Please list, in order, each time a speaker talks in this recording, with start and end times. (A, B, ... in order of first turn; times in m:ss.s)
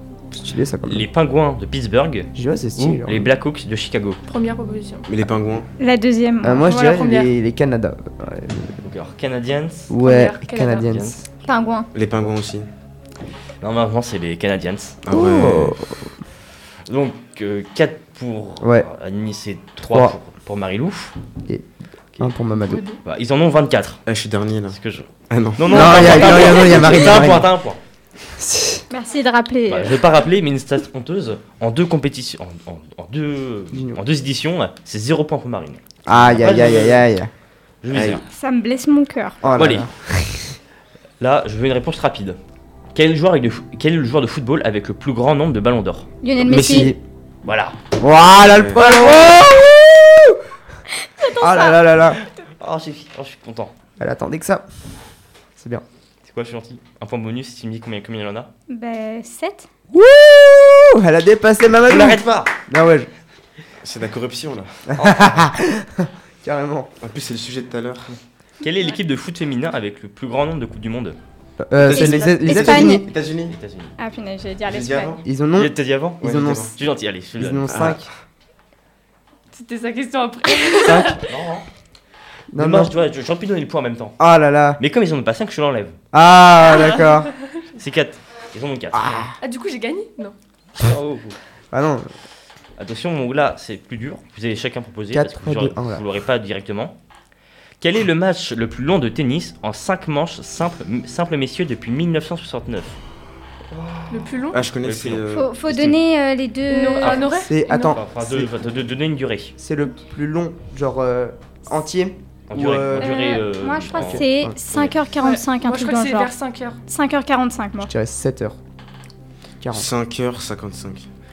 0:00.3-0:01.1 A
0:00.8-0:04.2 B
0:02.3-0:03.3 A
0:04.2-0:05.1 C
0:05.1-0:05.7 D
0:05.8-0:06.6 E
0:06.4-0:08.7 A
0:06.7-0:07.3 C
0:08.8-0:09.9 B
0:09.9-0:11.2 A
0:10.0-0:10.9 C
0:11.4-0:11.9 E
0:11.9-0:12.7 D
0:13.6-0:15.0 B
0:15.0-0:15.8 D
0:15.1-0:16.1 A
0:16.9-0:21.1 B
0:18.6-0:18.9 A
0:19.8-0:20.1 A
0:22.2-0:22.8 A
0:22.7-0:22.9 C
0:23.0-0:24.0 B
0:24.1-0:24.8 D
0:24.7-0:27.8 B
0:25.3-0:26.7 D
0:25.7-0:27.5 A
0:25.9-0:26.2 E
0:28.3-0:28.8 A
0:28.9-0:30.0 E
0:29.7-0:37.0 B
0:33.7-0:34.0 A
0:36.0-0:37.3 A
0:37.8-0:38.2 B
0:37.9-0:38.2 D
0:38.3-0:39.4 E
0:39.4-0:40.5 A
0:39.6-0:39.9 B
0:41.2-0:42.4 B
0:42.9-0:46.1 B
0:46.2-0:46.9 E
0:46.5-0:47.0 A
0:46.5-0:46.9 D
0:47.4-0:47.8 B
0:48.0-0:50.4 A
0:48.4-0:48.8 D
0:48.8-0:49.2 E
0:50.9-0:51.8 E
0:51.3-0:52.2 A
0:52.6-0:53.7 B
0:54.0-0:54.6 A
0:55.6-0:55.8 A
0:56.3-0:58.5 B
0:58.7-0:59.7 E
0:59.9-1:03.1 A
1:01.8-1:02.5 B
1:03.8-1:04.8 D
1:04.9-1:06.9 A
1:05.0-1:05.4 B
1:07.0-1:08.2 D
1:08.6-1:11.2 B
1:11.7-1:13.0 A
1:11.8-1:13.6 D
1:11.9-1:13.1 E
1:13.5-1:13.9 B
1:14.0-1:15.1 E
1:14.6-1:15.2 D
1:15.2-1:16.7 A
1:15.6-1:17.9 B
1:16.2-1:16.7 D
1:17.4-1:18.1 A
1:17.7-1:18.0 D
1:19.5-1:21.3 C
1:20.8-1:21.2 A
1:21.2-1:21.7 B
1:22.5-1:22.9 A
1:22.6-1:24.2 B
1:24.2-1:24.8 A
1:24.8-1:26.0 B
1:26.1-1:27.3 A
1:26.7-1:27.1 C
1:27.8-1:29.2 B
1:28.9-1:29.3 A
1:29.4-1:30.3 C
1:30.8-1:31.4 B
1:31.7-1:32.1 A
1:32.8-1:37.0 B
1:35.1-1:36.0 A
1:37.8-1:43.0 B
1:43.7-1:44.3 A
1:44.1-1:44.6 C
1:44.5-1:45.9 D
1:44.8-1:45.2 B
1:45.3-1:47.9 E
1:46.7-1:47.5 C
1:47.0-1:47.3 B
1:47.4-1:48.5 A
1:47.8-1:49.5 B
1:49.6-1:53.1 A
1:52.5-1:54.9 B
1:53.0-1:56.3 E
1:54.1-1:54.5 A
1:55.2-1:56.8 C
1:56.9-1:57.9 E
1:57.8-1:58.6 A
1:59.6-1:59.9 A
1:59.7-2:01.1 D